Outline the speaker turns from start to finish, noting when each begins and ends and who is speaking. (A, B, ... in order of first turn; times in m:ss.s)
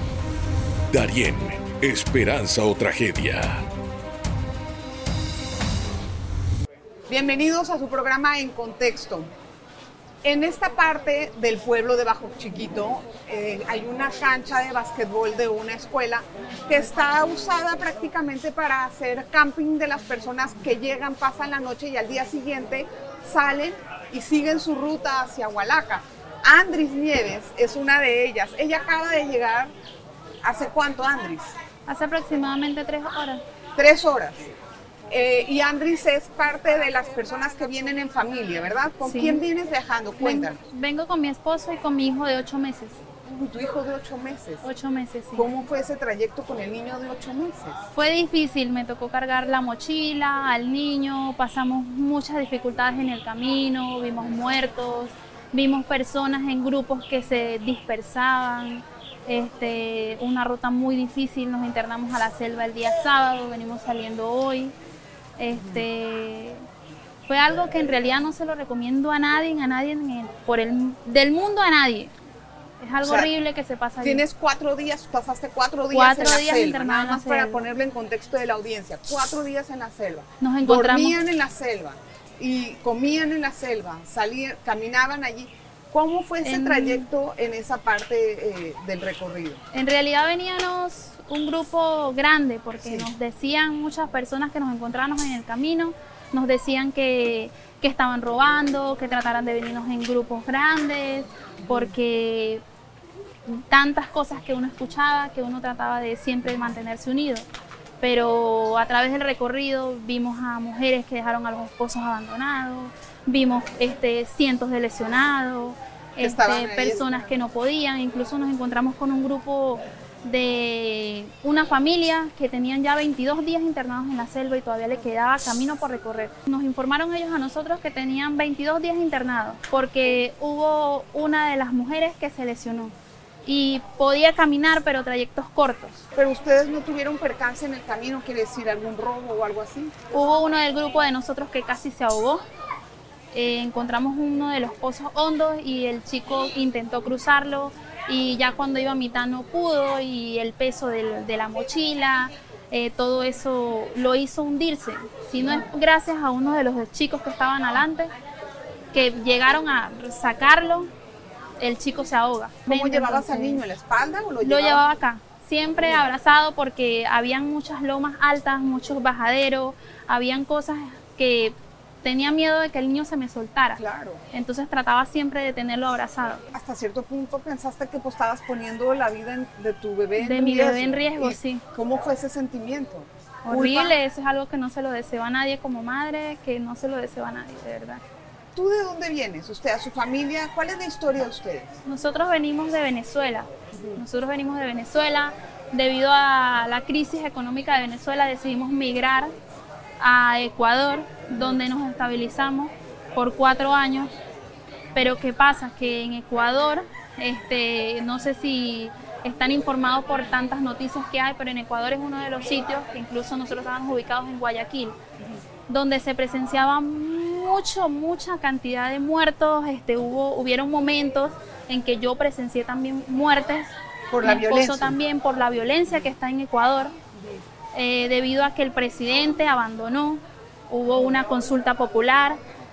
0:00.9-0:03.6 A
0:07.1-0:09.3 B
0:10.2-0:29.7 B
0:30.4-0:31.5 B
0:31.8-0:33.4 C
0:33.8-0:34.5 B
0:35.1-0:40.6 B
0:39.0-0:39.4 C
0:40.2-0:43.0 C
0:43.2-0:44.6 B
0:44.6-0:45.5 C
0:45.3-0:47.8 B
0:47.9-1:04.7 C
1:05.4-1:06.6 C
1:05.5-1:05.8 B
1:07.3-1:12.1 C
1:12.8-1:14.2 C
1:13.0-1:13.3 B
1:14.0-1:29.6 B
1:15.9-1:17.6 C
1:20.4-1:21.2 C
1:26.4-1:27.1 C
1:29.7-1:42.6 C
1:32.8-1:33.1 B
1:41.6-1:41.9 B
1:43.4-1:47.4 C
1:48.0-2:12.9 C
1:56.2-1:57.3 B
2:13.4-2:16.0 C
2:16.2-2:19.9 B
2:20.1-2:22.4 C
2:23.3-2:38.1 C
2:38.9-2:40.9 C
2:41.6-2:43.6 C
2:42.7-2:44.8 B
2:44.4-2:53.8 C
2:53.8-2:54.2 B
2:54.3-2:56.4 C
2:56.5-3:04.0 B
3:00.2-3:01.6 C
3:03.4-3:08.0 C
3:08.5-3:11.7 B
3:11.8-3:19.3 C
3:13.7-3:14.0 B
3:20.0-3:24.2 C
3:24.9-3:35.0 C
3:35.7-3:46.9 C
3:44.1-3:45.0 B
3:47.7-3:52.4 C